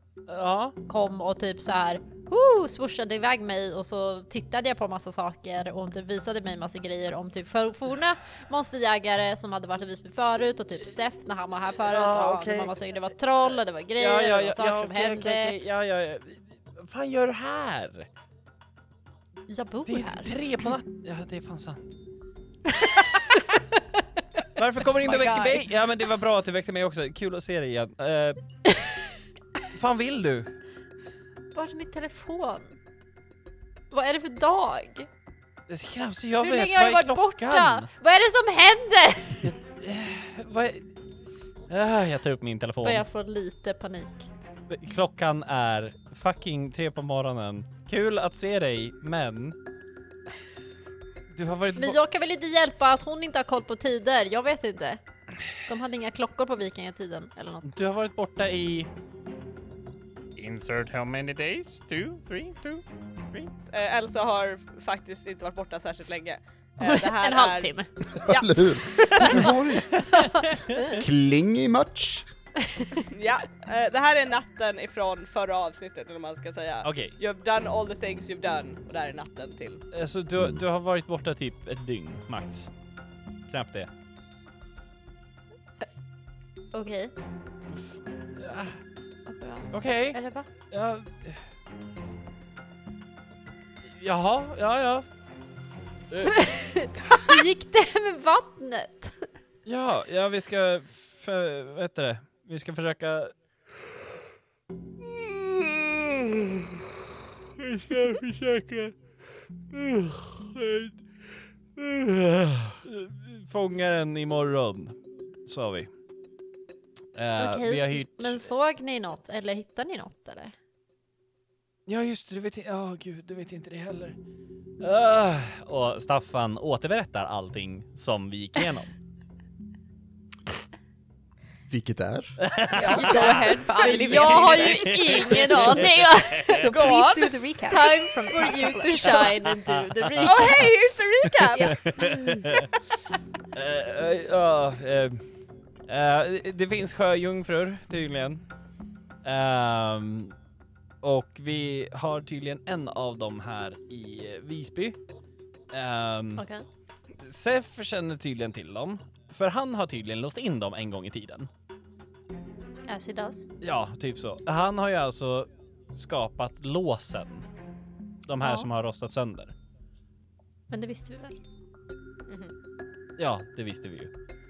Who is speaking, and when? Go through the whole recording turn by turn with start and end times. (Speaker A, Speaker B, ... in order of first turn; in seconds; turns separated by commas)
Speaker A: 0.3-0.8, Speaker B: 0.9-15.6, Speaker A: 11.8-12.8, Speaker A: 14.0-18.1, Speaker B: 19.5-20.3, Speaker A: 19.9-21.8, Speaker A: 24.6-28.7, Speaker C: 25.0-25.6, Speaker A: 29.7-30.6, Speaker B: 31.5-32.8, Speaker B: 33.9-35.1, Speaker A: 35.7-37.9, Speaker B: 36.4-39.5, Speaker A: 39.4-40.9, Speaker A: 41.7-43.0, Speaker B: 42.8-44.3, Speaker A: 44.7-49.6, Speaker A: 51.3-52.0, Speaker B: 51.8-57.7, Speaker A: 57.6-58.9, Speaker A: 60.4-63.5, Speaker D: 63.7-69.5, Speaker B: 66.8-68.0, Speaker E: 68.2-70.0, Speaker A: 70.1-70.9, Speaker B: 70.3-70.9, Speaker E: 70.8-72.3, Speaker D: 73.0-79.8, Speaker A: 76.8-77.2, Speaker A: 79.9-82.7, Speaker E: 80.4-80.6, Speaker A: 83.5-83.9, Speaker B: 86.7-87.1, Speaker A: 87.7-88.8, Speaker B: 89.3-90.5, Speaker A: 89.7-91.5, Speaker A: 93.9-95.1, Speaker A: 96.1-96.5, Speaker B: 96.3-99.3, Speaker A: 99.7-103.3, Speaker A: 105.0-106.8, Speaker A: 107.6-109.0, Speaker A: 109.7-111.0, Speaker A: 111.8-115.9, Speaker A: 117.2-118.5, Speaker B: 117.4-120.6, Speaker A: 121.9-124.2, Speaker A: 124.8-128.9, Speaker E: 131.7-132.6, Speaker A: 132.4-136.6, Speaker C: 132.7-135.8, Speaker B: 133.0-136.8, Speaker C: 136.5-139.6, Speaker D: 136.7-137.4, Speaker B: 137.7-140.7, Speaker A: 139.4-140.7, Speaker D: 140.2-142.1, Speaker A: 141.4-142.7, Speaker A: 143.5-148.5, Speaker A: 149.2-150.3, Speaker A: 151.0-155.0, Speaker A: 155.7-156.4, Speaker B: 156.4-156.7, Speaker A: 157.2-161.5, Speaker B: 162.9-163.5, Speaker A: 163.6-167.5, Speaker A: 168.3-169.5, Speaker B: 168.4-168.7, Speaker B: 170.7-171.4, Speaker D: 172.3-172.5, Speaker A: 173.2-174.1